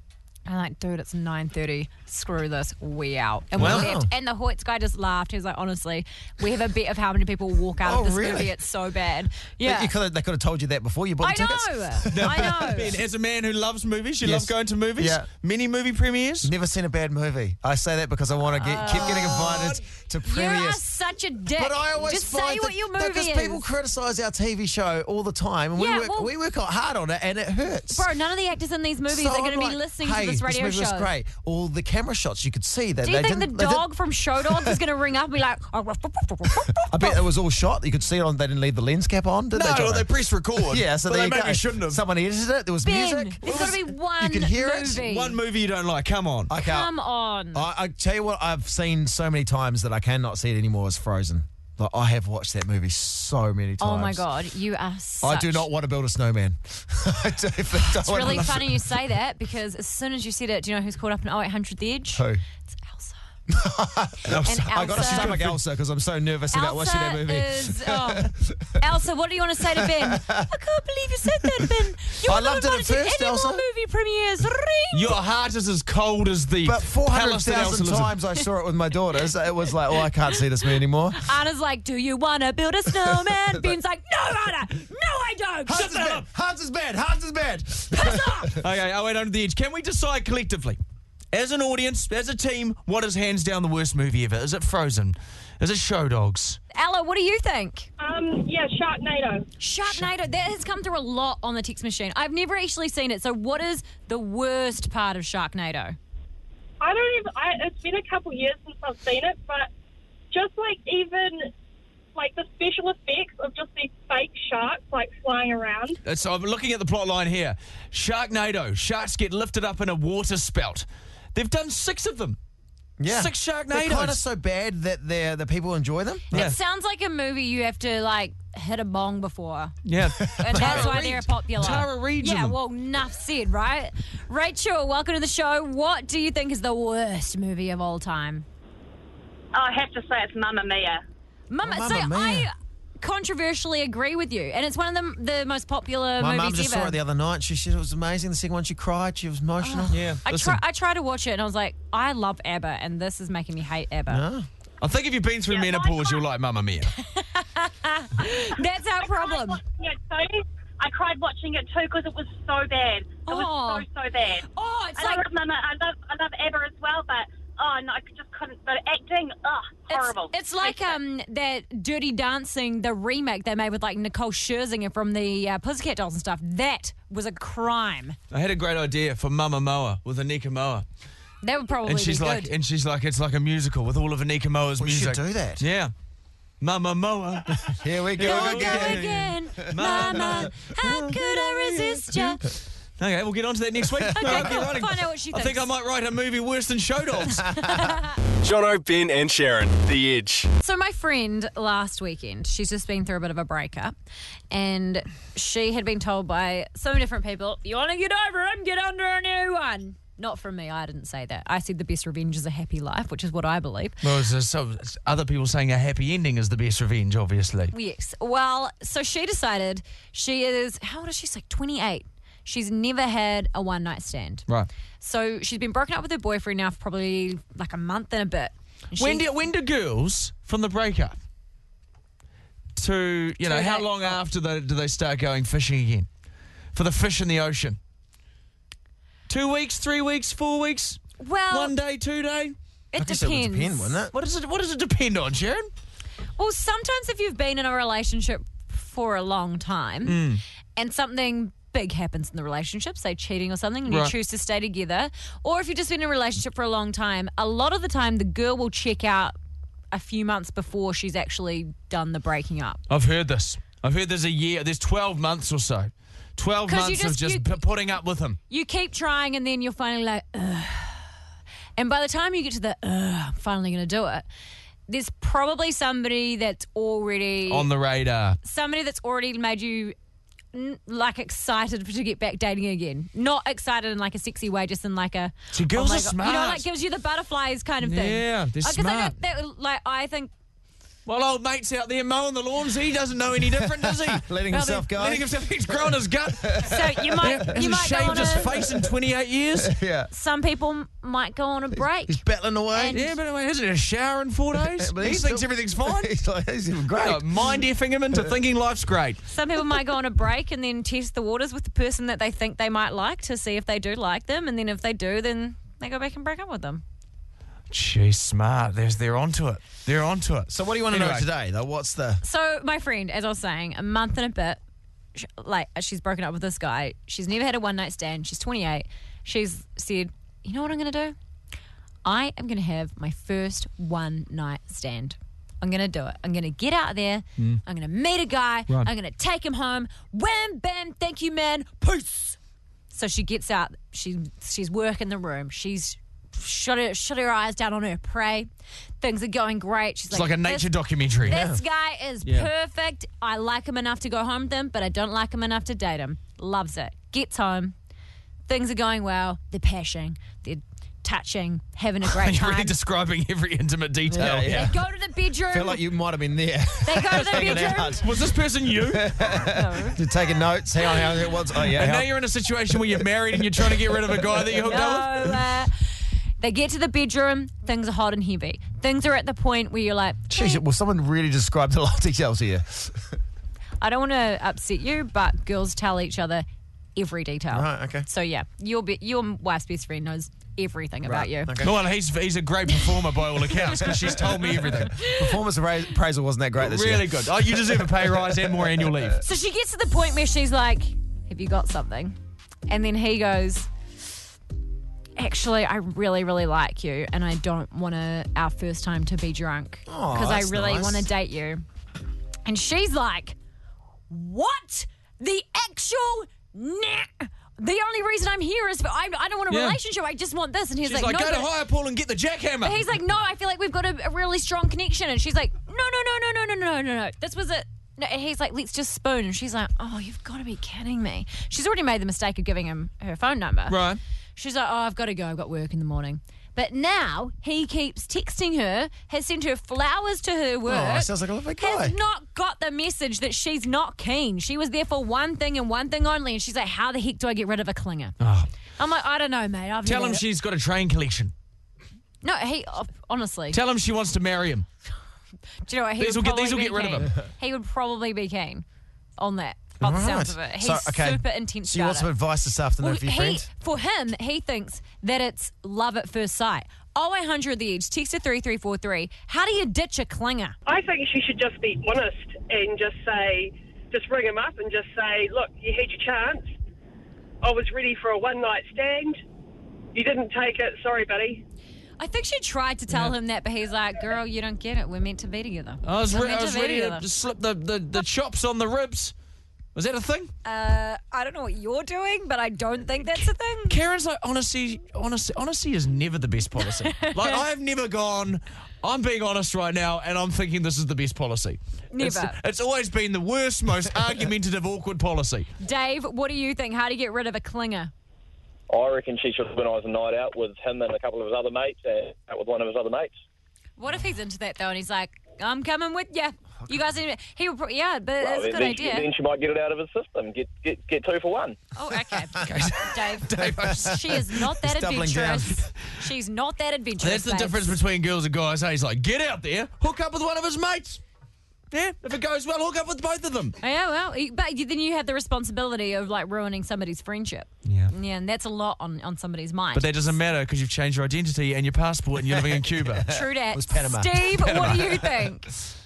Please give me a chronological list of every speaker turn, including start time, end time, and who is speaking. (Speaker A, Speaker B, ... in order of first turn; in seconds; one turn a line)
Speaker A: 0.5-9.9
Speaker B: 3.5-3.9
Speaker C: 3.5-4.1
Speaker C: 7.8-8.5
Speaker C: 9.6-12.8
Speaker A: 11.2-12.9
Speaker B: 12.1-16.5
Speaker C: 14.2-15.3
Speaker C: 16.4-20.8
Speaker A: 18.5-23.6
Speaker B: 18.9-19.8
Speaker C: 21.5-28.1
Speaker A: 25.8-26.3
Speaker A: 27.9-31.1
Speaker C: 29.1-33.9
Speaker A: 33.0-37.2
Speaker C: 34.4-34.8
Speaker C: 36.9-40.1
Speaker B: 39.5-42.0
Speaker C: 40.6-45.0
Speaker A: 42.8-45.4
Speaker B: 43.5-43.8
Speaker B: 45.0-46.5
Speaker C: 46.5-46.9
Speaker A: 46.6-47.6
Speaker C: 47.5-54.2
Speaker A: 53.8-55.7
Speaker C: 55.2-58.7
Speaker A: 57.9-63.1
Speaker C: 62.1-62.4
Speaker C: 63.5-68.8
Speaker B: 64.3-65.6
Speaker A: 64.4-65.3
Speaker A: 66.5-75.2
Speaker C: 69.7-70.5
Speaker C: 71.4-73.6
Speaker B: 74.9-78.1
Speaker C: 76.6-81.2
Speaker A: 81.2-86.2
Speaker C: 83.0-83.7
Speaker C: 85.7-88.5
Speaker A: 87.9-88.5
Speaker B: 88.6-90.8
Speaker B: 91.3-96.6
Speaker A: 96.7-97.9
Speaker D: 98.0-99.5
Speaker A: 99.6-106.0
Speaker D: 106.8-109.7
Speaker D: 110.3-111.5
Speaker D: 112.1-116.0
Speaker B: 116.0-122.4
Speaker C: 123.0-126.4
Speaker B: 123.0-124.2
Speaker A: 126.3-138.4
Speaker B: 126.3-126.6
Speaker B: 129.8-132.6
Speaker C: 130.2-131.0
Speaker D: 139.5-141.0
Speaker A: 141.5-147.0
Speaker C: 141.6-142.5
Speaker C: 146.2-150.2
Speaker A: 149.6-154.2
Speaker B: 149.9-150.6
Speaker C: 154.1-154.5
Speaker B: 154.8-156.9
Speaker D: 155.5-156.2
Speaker A: 157.0-159.6
Speaker D: 159.0-171.0
Speaker A: 163.2-163.8
Speaker A: 164.4-165.3
Speaker A: 169.9-178.2
Speaker B: 178.3-180.8
Speaker A: 181.4-182.5
Speaker B: 181.8-185.9
Speaker C: 184.8-185.6
Speaker B: 186.6-192.3
Speaker C: 187.7-190.4
Speaker A: 188.2-192.4
Speaker B: 193.0-197.4
Speaker C: 194.0-194.5
Speaker A: 194.1-195.7
Speaker A: 197.4-198.1
Speaker E: 198.4-200.5
Speaker A: 200.6-203.9
Speaker A: 204.5-214.0
Speaker B: 214.0-217.7
Speaker A: 217.7-224.4
Speaker A: 225.0-229.3
Speaker B: 228.9-231.2
Speaker B: 232.8-236.1
Speaker A: 233.4-234.2
Speaker B: 236.7-237.8
Speaker B: 239.3-242.5
Speaker A: 241.2-241.8
Speaker A: 242.9-244.0
Speaker C: 242.9-244.1
Speaker B: 244.1-245.7
Speaker A: 246.4-259.4
Speaker B: 250.0-250.4
Speaker B: 253.9-254.1
Speaker A: 259.9-262.8
Speaker B: 262.9-268.4
Speaker A: 266.6-267.6
Speaker A: 268.5-271.1
Speaker A: 271.8-274.2
Speaker A: 274.9-277.7
Speaker B: 277.5-278.4
Speaker A: 278.4-279.9
Speaker A: 280.5-290.3
Speaker B: 285.5-286.6
Speaker B: 287.8-289.2
Speaker B: 291.1-299.7
Speaker C: 293.5-297.0
Speaker A: 296.6-298.6
Speaker C: 299.6-300.1
Speaker A: 300.1-302.2
Speaker C: 302.1-303.0
Speaker A: 302.7-303.1
Speaker B: 302.9-306.1
Speaker C: 304.6-307.6
Speaker B: 307.0-309.2
Speaker A: 309.3-316.8
Speaker B: 317.7-321.2
Speaker C: 320.5-322.2
Speaker A: 322.2-324.6
Speaker A: 325.1-331.1
Speaker A: 332.0-342.4
Speaker A: 342.9-348.5
Speaker A: 349.0-357.7
Speaker B: 350.1-351.4
Speaker C: 351.2-351.6
Speaker B: 352.2-352.5
Speaker A: 358.5-362.8
Speaker B: 362.0-364.7
Speaker C: 364.1-364.8
Speaker A: 364.5-365.8
Speaker C: 365.4-368.1
Speaker A: 366.8-368.0
Speaker B: 367.1-369.1
Speaker C: 368.9-372.1
Speaker A: 369.4-370.0
Speaker B: 371.7-375.4
Speaker C: 373.6-374.4
Speaker A: 374.6-375.7
Speaker A: 376.4-380.6
Speaker C: 380.3-383.1
Speaker A: 383.8-391.5
Speaker C: 387.5-388.1
Speaker C: 391.1-391.7
Speaker B: 391.6-395.0
Speaker C: 393.9-394.4
Speaker A: 394.3-395.3
Speaker C: 395.0-399.1
Speaker B: 396.6-399.2
Speaker A: 399.2-402.1
Speaker A: 402.7-403.7
Speaker A: 405.2-411.6
Speaker C: 409.9-411.1
Speaker A: 412.4-413.4
Speaker A: 414.1-421.5
Speaker B: 419.5-419.8
Speaker B: 420.8-422.9
Speaker A: 422.6-433.8
Speaker B: 433.7-434.0
Speaker A: 434.4-448.1
Speaker C: 440.6-441.9
Speaker B: 448.2-448.5
Speaker A: 448.8-450.2
Speaker B: 449.8-451.3
Speaker A: 452.2-453.6
Speaker B: 453.5-454.6
Speaker A: 455.6-458.6
Speaker B: 456.0-457.1
Speaker A: 459.2-462.1
Speaker C: 459.8-463.5
Speaker A: 462.8-470.5
Speaker F: 470.6-476.6
Speaker F: 477.4-479.2
Speaker F: 479.9-481.4
Speaker A: 482.0-487.1
Speaker B: 482.9-483.1
Speaker B: 485.8-489.1
Speaker B: 489.7-490.3
Speaker A: 490.4-493.8
Speaker B: 493.1-505.5
Speaker A: 496.8-497.4
Speaker A: 501.9-502.4
Speaker A: 505.6-507.9
Speaker G: 508.7-513.1
Speaker A: 513.8-519.1
Speaker G: 518.2-521.6
Speaker A: 521.8-527.8
Speaker B: 522.4-524.0
Speaker C: 523.4-525.6
Speaker B: 527.0-531.0
Speaker B: 531.7-533.5
Speaker A: 533.6-540.1
Speaker B: 537.6-537.9
Speaker B: 539.7-543.1
Speaker C: 542.4-544.6
Speaker A: 543.1-545.5
Speaker B: 544.4-545.0